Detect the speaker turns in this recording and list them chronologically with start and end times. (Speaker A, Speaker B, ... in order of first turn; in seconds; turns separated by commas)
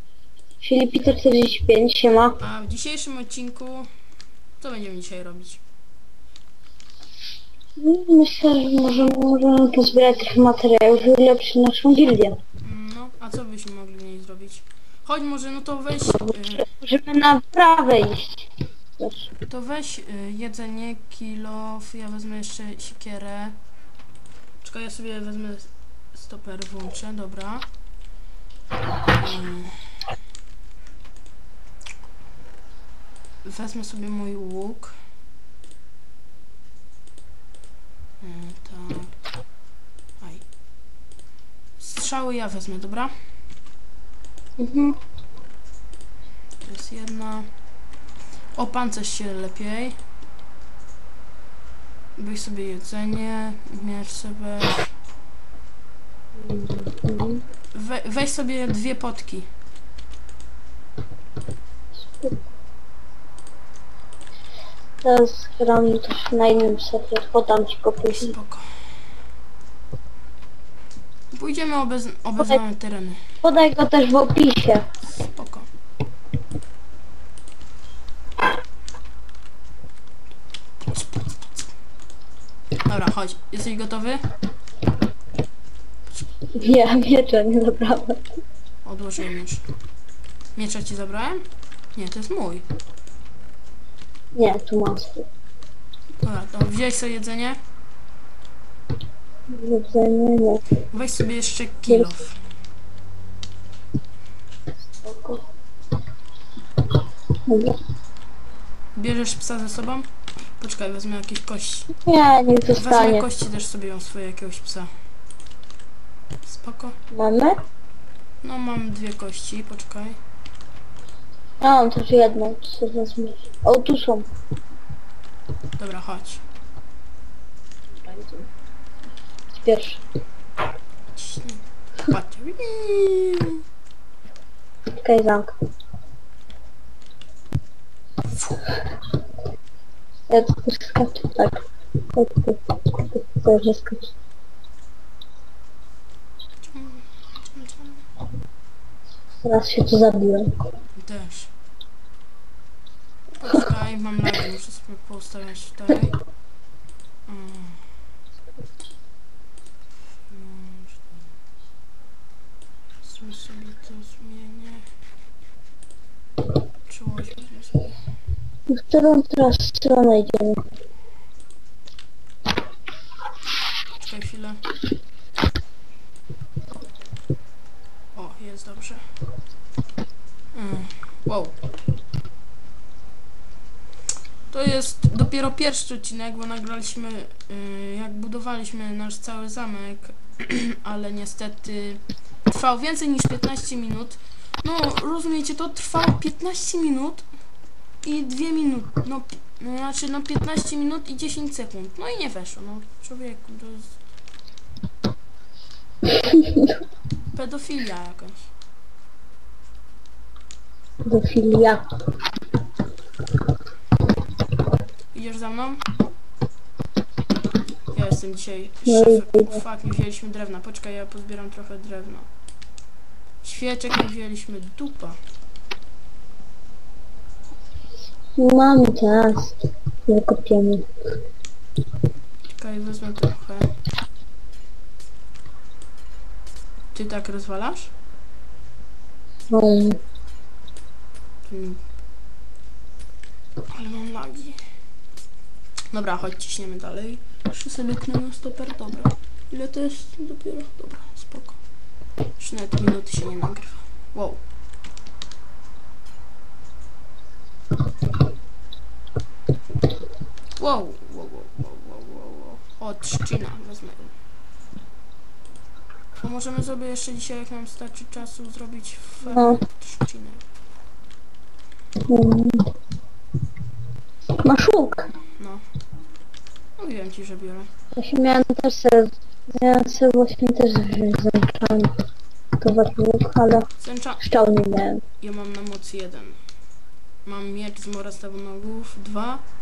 Speaker A: 0.6-2.4, Speaker B: 2.4-3.9, Speaker B: 4.6-5.6, Speaker A: 7.8-12.3, Speaker B: 12.6-16.7, Speaker A: 16.1-18.5, Speaker A: 19.0-19.2, Speaker B: 19.5-23.6, Speaker B: 24.6-27.6, Speaker B: 29.1-30.0, Speaker B: 33.4-35.0, Speaker B: 38.2-39.1, Speaker B: 41.8-43.1, Speaker A: 44.6-45.0, Speaker B: 46.6-47.5, Speaker B: 48.5-50.0, Speaker B: 52.2-54.9, Speaker A: 56.4-57.4, Speaker B: 57.7-59.5, Speaker A: 65.0-68.3, Speaker B: 68.1-68.7, Speaker B: 71.3-73.2, Speaker A: 73.4-74.8, Speaker B: 75.2-75.7, Speaker B: 80.9-81.7, Speaker B: 82.8-84.2, Speaker A: 86.5-88.2, Speaker B: 88.8-89.6, Speaker B: 90.5-92.6, Speaker A: 94.3-95.2, Speaker B: 96.2-97.6, Speaker A: 99.5-100.6, Speaker B: 100.9-102.3, Speaker A: 105.0-105.4, Speaker A: 107.5-107.8, Speaker B: 108.9-111.9, Speaker A: 112.0-113.3, Speaker B: 112.7-114.9, Speaker B: 116.4-116.9, Speaker A: 117.1-117.6, Speaker B: 118.4-120.2, Speaker A: 121.6-124.3, Speaker B: 125.8-126.4, Speaker A: 128.0-128.4, Speaker A: 129.5-130.0, Speaker B: 131.1-133.6, Speaker A: 135.0-135.5, Speaker B: 138.3-138.7, Speaker A: 140.3-141.6, Speaker A: 142.1-144.1, Speaker B: 146.6-148.0, Speaker A: 149.4-150.5, Speaker B: 151.0-151.5, Speaker B: 153.4-156.2, Speaker B: 157.3-157.8, Speaker B: 160.3-161.2, Speaker B: 163.0-164.8, Speaker B: 166.9-167.9, Speaker A: 168.7-170.6, Speaker B: 173.9-174.6, Speaker B: 178.1-179.0, Speaker B: 180.5-181.6, Speaker B: 184.5-197.2, Speaker B: 198.0-204.0, Speaker A: 206.3-206.7, Speaker B: 207.3-208.5, Speaker A: 211.1-211.8, Speaker B: 215.1-215.8, Speaker B: 217.9-222.3, Speaker A: 218.9-219.6, Speaker B: 223.4-225.2, Speaker A: 228.4-230.8, Speaker B: 232.5-233.7, Speaker B: 236.9-237.9, Speaker A: 239.5-240.0, Speaker B: 241.4-241.8, Speaker B: 243.7-244.6, Speaker B: 245.9-251.6, Speaker B: 252.4-254.4, Speaker B: 260.6-264.1, Speaker B: 266.2-270.4, Speaker A: 269.2-269.6, Speaker A: 272.1-272.7, Speaker A: 274.4-275.1, Speaker B: 276.8-277.7, Speaker A: 277.9-281.9, Speaker A: 282.6-283.7, Speaker B: 283.8-284.2, Speaker A: 284.2-285.0, Speaker B: 285.2-286.4, Speaker B: 287.2-289.4